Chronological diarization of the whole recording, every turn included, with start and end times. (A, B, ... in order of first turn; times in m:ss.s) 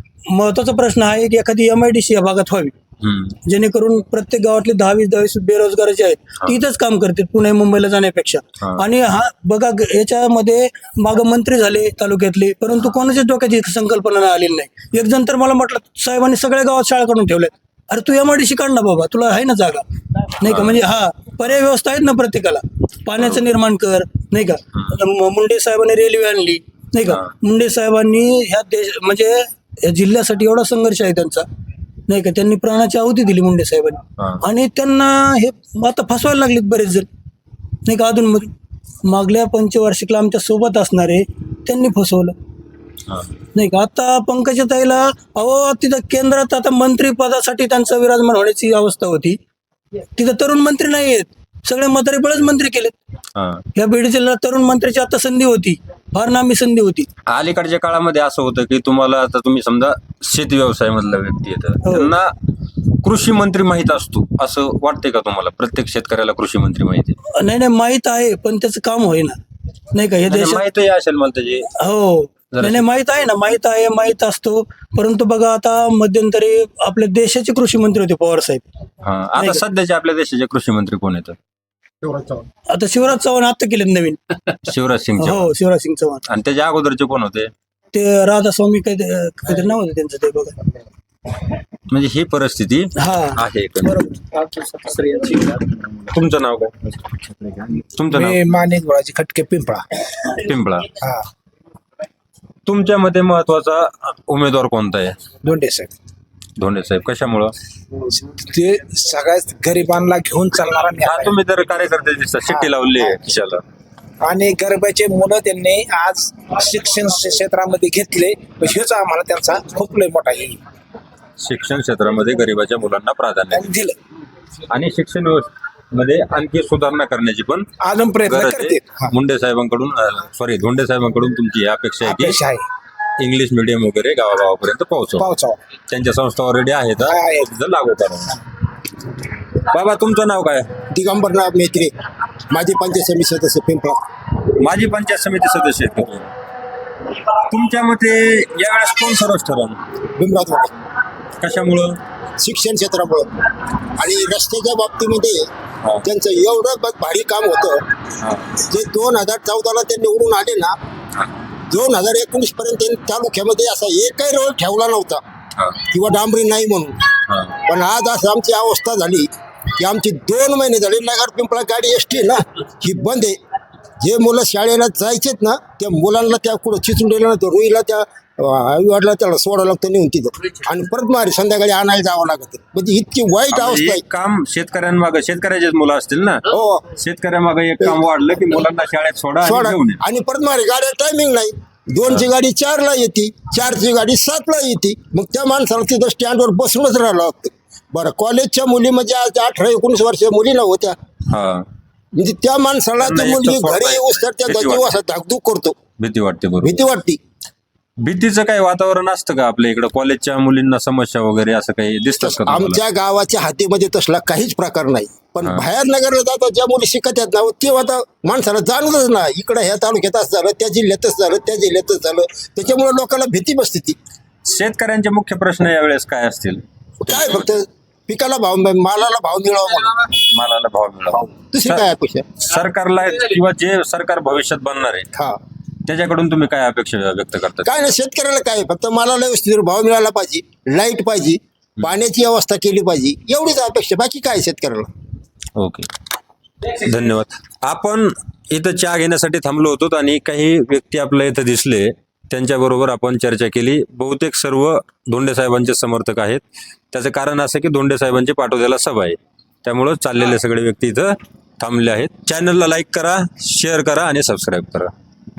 0:00.3-0:02.7 A
0:03.0-0:03.4 B
0:03.4-0:19.8 A
0:20.4-0:31.4 A
0:20.5-0:20.8 B
0:23.2-0:23.4 B
0:32.1-0:37.1 A
0:37.8-0:38.5 A
0:39.0-0:42.3 A
0:43.5-0:49.4 A
0:50.2-0:52.9 A
0:53.4-0:53.6 B
0:53.7-0:57.1 A
0:57.3-1:02.3 B
1:01.8-1:02.1 A
1:03.0-1:07.2 B
1:07.3-1:09.4 A
1:09.9-1:10.6 A
1:10.2-1:11.7 B
1:11.7-1:18.6 A
1:12.5-1:12.8 B
1:19.0-1:21.4 B
1:19.4-1:19.6 A
1:22.7-1:24.4 A
1:24.6-1:25.5 B
1:25.2-1:26.2 A
1:26.3-1:27.5 B
1:27.9-1:30.6 A
1:31.9-1:34.1 B
1:33.0-1:34.1 A
1:34.8-1:36.7 B
1:37.7-1:39.9 C
1:37.9-1:38.4 B
1:40.3-1:40.9 B
1:41.0-1:41.3 C
1:42.6-1:45.2 B
1:45.4-1:45.9 C
1:46.6-1:47.5 B
1:48.1-1:51.4 C
1:51.0-1:53.6 B
1:54.2-2:00.6 C
2:01.4-2:03.7 B
2:03.5-2:04.0 C
2:04.7-2:07.7 B
2:07.8-2:09.1 C
2:08.2-2:12.4 B
2:12.0-2:12.6 C
2:13.2-2:15.3 B
2:15.2-2:15.6 C
2:15.9-2:18.4 B
2:17.0-2:17.5 C
2:19.7-2:20.7 B
2:20.9-2:21.9 D
2:22.5-2:24.0 D
2:24.5-2:26.3 B
2:27.5-2:29.8 B
2:30.2-2:30.7 D
2:31.4-2:32.0 B
2:32.4-2:33.3 D
2:34.0-2:35.5 D
2:36.0-2:37.8 D
2:38.2-2:38.5 B
2:38.6-2:40.7 D
2:41.7-2:45.2 D
2:45.9-2:47.0 D
2:47.3-2:47.6 B
2:47.6-2:53.4 D
2:54.0-3:04.0 D
3:03.5-3:10.0 B
3:06.5-3:06.9 D
3:09.4-3:21.0 D
3:21.3-3:21.6 B
3:22.2-3:25.8 D
3:23.0-3:25.0 B
3:26.0-3:26.9 B
3:26.6-3:27.2 D
3:28.0-3:32.8 B
3:32.2-3:44.0 D
3:44.5-3:47.5 B
3:47.0-3:50.1 D
3:50.0-3:51.8 B
3:51.5-3:52.4 D
3:52.4-3:55.1 B
3:55.8-3:57.8 B
3:57.6-4:04.9 D
4:05.6-4:05.9 B
4:06.7-4:24.9 B